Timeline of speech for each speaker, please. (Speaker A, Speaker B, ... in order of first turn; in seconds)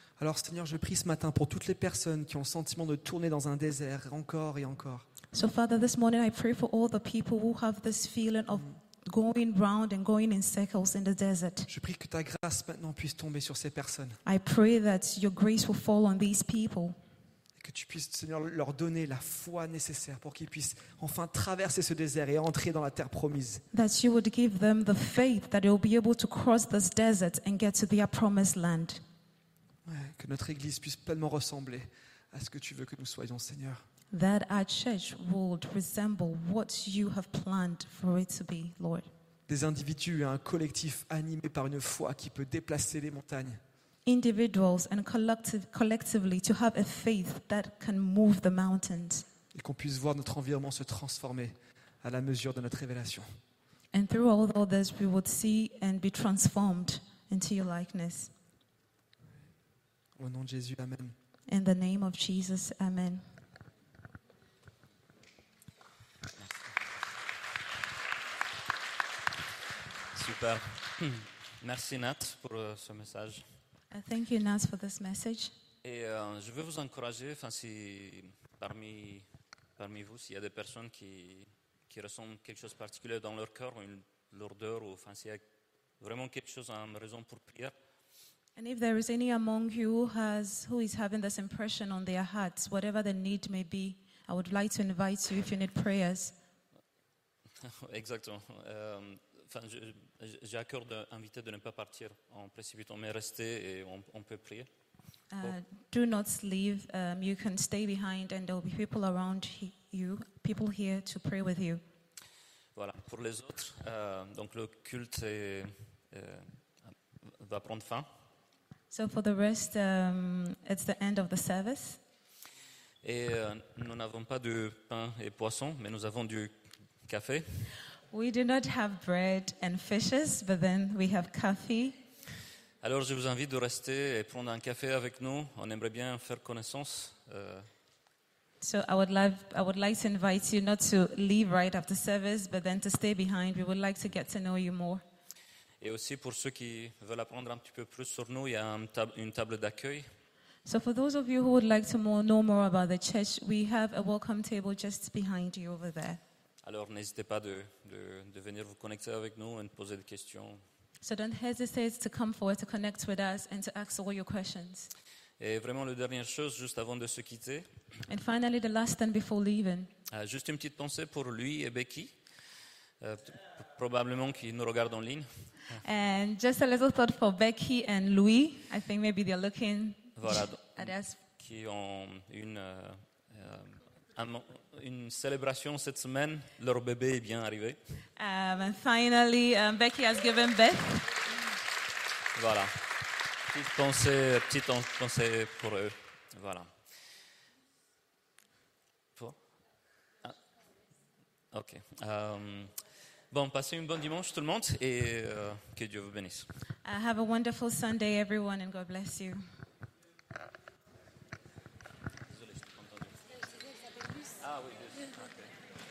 Speaker A: 0.2-5.1, 11.7-14.2, 17.6-23.6, 29.9-33.8, 39.5-43.6, 49.5-53.3, 60.2-61.1
Speaker B: 5.3-11.7, 14.2-17.0, 23.7-29.0, 34.1-39.1, 44.1-49.3, 53.9-58.3, 61.5-63.2, 73.9-75.5, 88.6-96.3, 105.3-111.8, 118.9-122.0, 128.1-132.0, 138.6-145.0, 150.7-156.2, 161.0-164.9, 168.1-169.9, 175.8-181.2, 188.2-191.1, 206.8-209.4
Speaker C: 70.1-73.4, 75.8-79.3, 79.8-85.4, 86.0-87.7, 97.6-104.7, 112.8-116.5, 117.4-118.1, 123.0-126.5, 127.1-127.7, 132.8-137.7, 145.8-150.1, 156.6-160.6, 165.4-167.7, 170.1-172.1, 173.0-175.3, 180.2-187.8, 192.3-192.9, 193.5-196.7, 201.5-202.7, 203.3-206.5, 212.5-213.1, 214.3-215.5